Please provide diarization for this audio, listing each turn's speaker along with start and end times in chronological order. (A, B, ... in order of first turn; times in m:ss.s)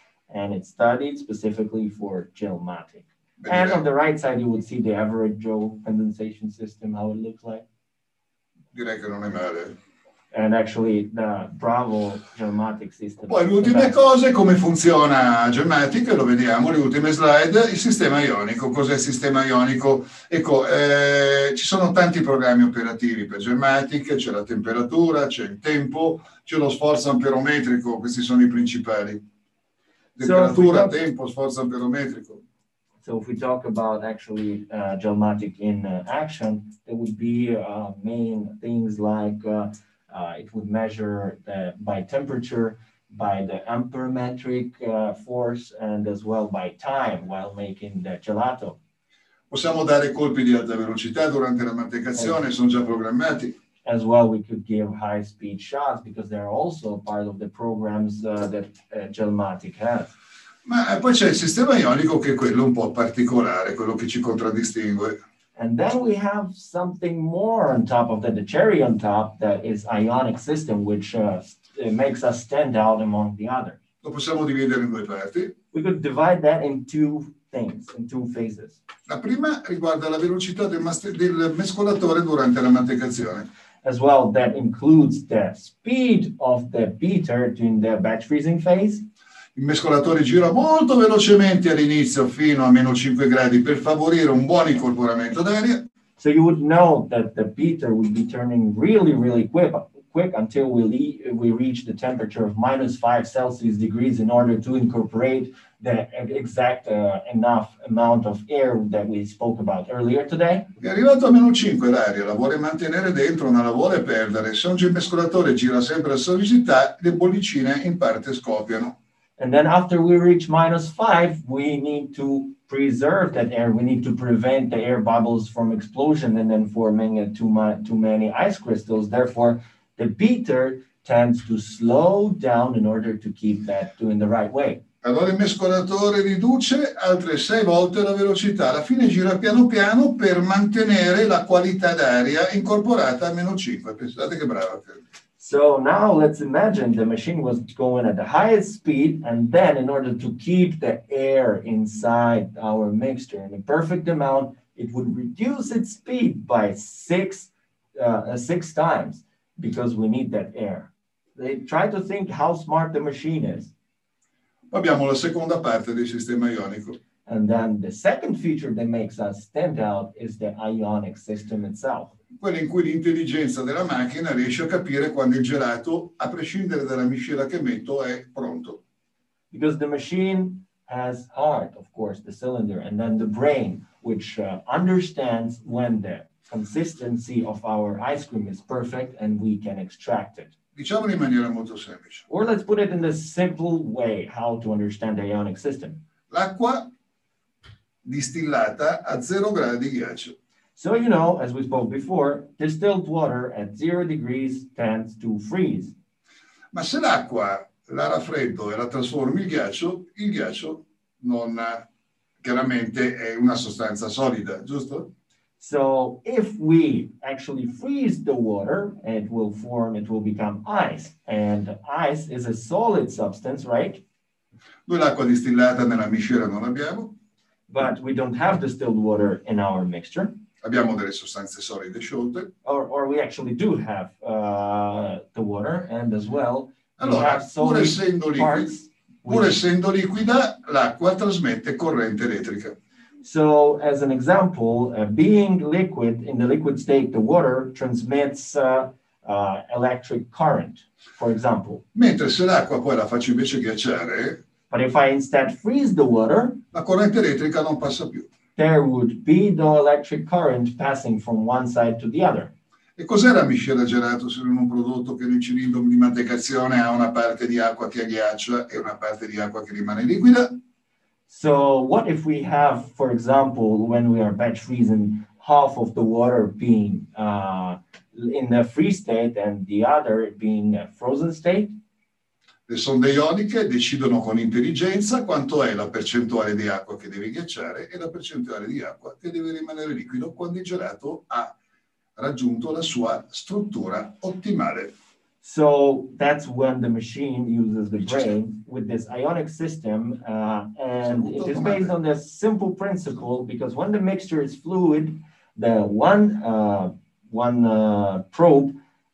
0:00.3-0:07.6 A
0:03.4-0:03.8 B
0:08.7-0:09.8 B
0:10.3-0:14.0 A
0:13.3-0:29.2 B
0:30.2-0:32.4 B
0:30.2-0:30.9 A
0:33.0-0:48.8 A
0:49.5-0:53.6 B
0:53.8-1:00.1 A
1:00.6-1:05.2 B
1:05.6-1:13.8 A
1:14.0-1:15.5 B
1:15.7-1:18.8 A
1:19.1-1:23.5 B
1:23.8-1:29.0 A
1:29.5-1:35.8 B
1:36.2-1:50.7 A
1:50.8-1:58.9 B
1:59.4-2:14.8 A
2:15.0-2:25.0 B
2:25.4-2:43.7 A
2:44.7-2:47.0 B
2:47.2-2:52.1 A
2:52.4-2:58.8 B
2:59.5-3:10.5 A
3:10.7-3:12.2 B
3:12.3-3:16.0 A
3:16.3-3:16.9 B
3:18.0-3:20.3 B
3:20.8-3:25.9 A
3:26.7-3:31.8 B
3:32.4-3:35.1 B
3:35.6-3:44.0 A
3:44.9-3:47.1 B
3:47.7-3:50.3 A
3:50.6-3:52.5 B
3:52.6-3:59.6 A
3:57.0-3:58.7 B
3:59.2-4:02.8 B
4:03.2-4:11.8 A
4:11.9-4:14.4 B
4:14.7-4:16.6 A
4:16.7-4:18.3 B
4:18.6-4:22.5 A
4:23.0-4:30.5 B
4:31.3-4:41.8 A
4:42.7-4:51.5 B
4:52.2-4:54.9 B
4:55.4-5:08.8 A
5:01.0-5:01.9 B